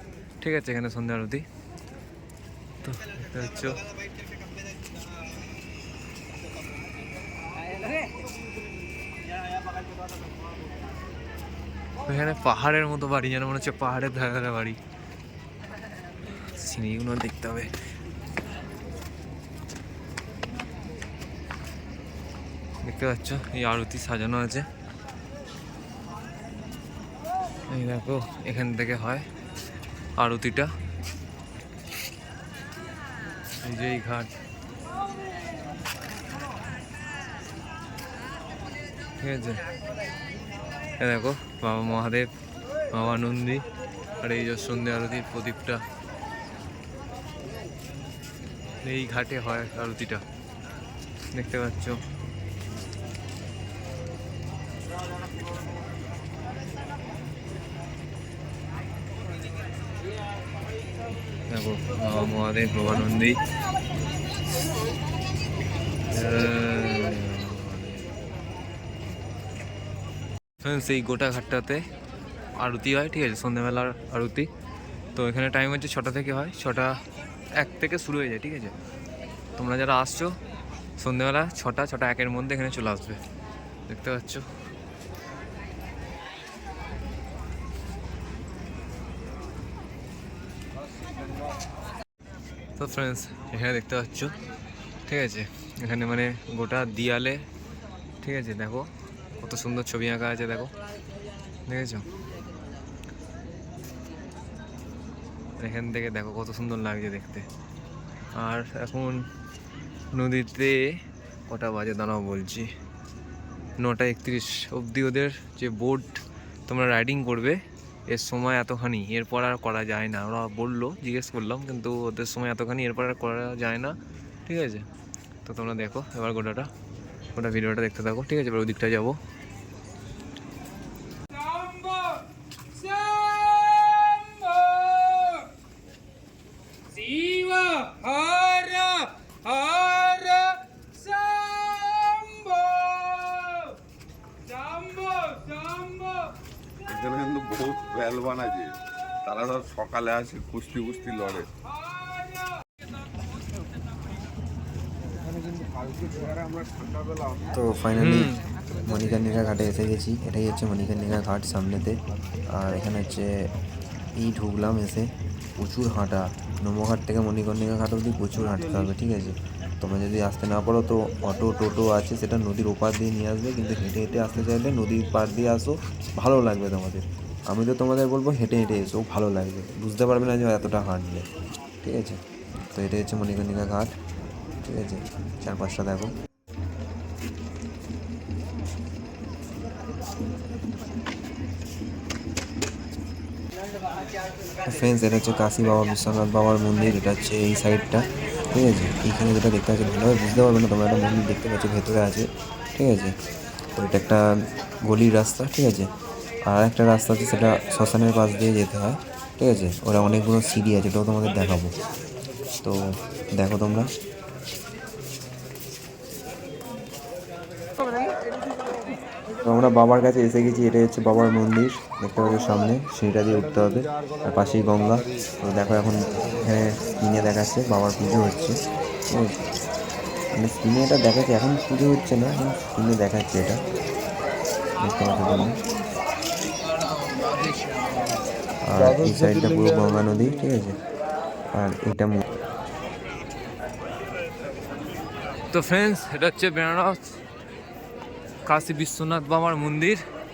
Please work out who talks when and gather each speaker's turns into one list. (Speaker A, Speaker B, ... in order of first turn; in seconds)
Speaker A: 0.4-1.4, 2.8-3.8, 12.0-14.8, 16.3-17.7, 22.8-24.7, 27.7-29.2, 30.2-30.7, 33.6-34.3, 39.2-39.6, 41.0-42.3, 42.9-43.6, 44.2-45.8, 48.8-50.2, 51.3-52.0, 61.5-63.4, 66.1-68.1, 70.6-71.8, 72.5-74.5, 75.2-77.0, 77.6-78.7, 79.6-80.3, 81.0-83.2, 83.9-84.5, 92.8-94.3, 95.1-97.4, 98.2-98.9, 99.4-100.7, 101.7-102.0, 105.6-107.5, 108.4-109.2, 110.1-110.8, 111.5-112.7, 113.8-123.9, 124.5-124.8, 125.4-126.7, 127.3-129.2, 131.7-132.0, 133.1-133.9, 134.4-135.3, 137.0-140.5, 141.3-142.5, 157.6-161.9, 162.6-163.4, 164.2-165.1, 165.6-168.5, 238.9-240.7, 245.5-247.1, 248.5-250.0
Speaker B: 146.8-151.5
Speaker C: 158.0-158.3, 159.2-162.0, 162.6-163.5, 164.3-165.1, 165.9-181.2, 181.8-182.2, 182.7-183.9, 184.6-186.1, 194.6-203.1, 203.8-204.2, 204.8-205.9, 206.5-211.7, 213.4-213.9, 219.4-228.6, 229.1-229.4, 230.4-233.6, 234.8-235.5, 238.7-240.8, 241.5-242.2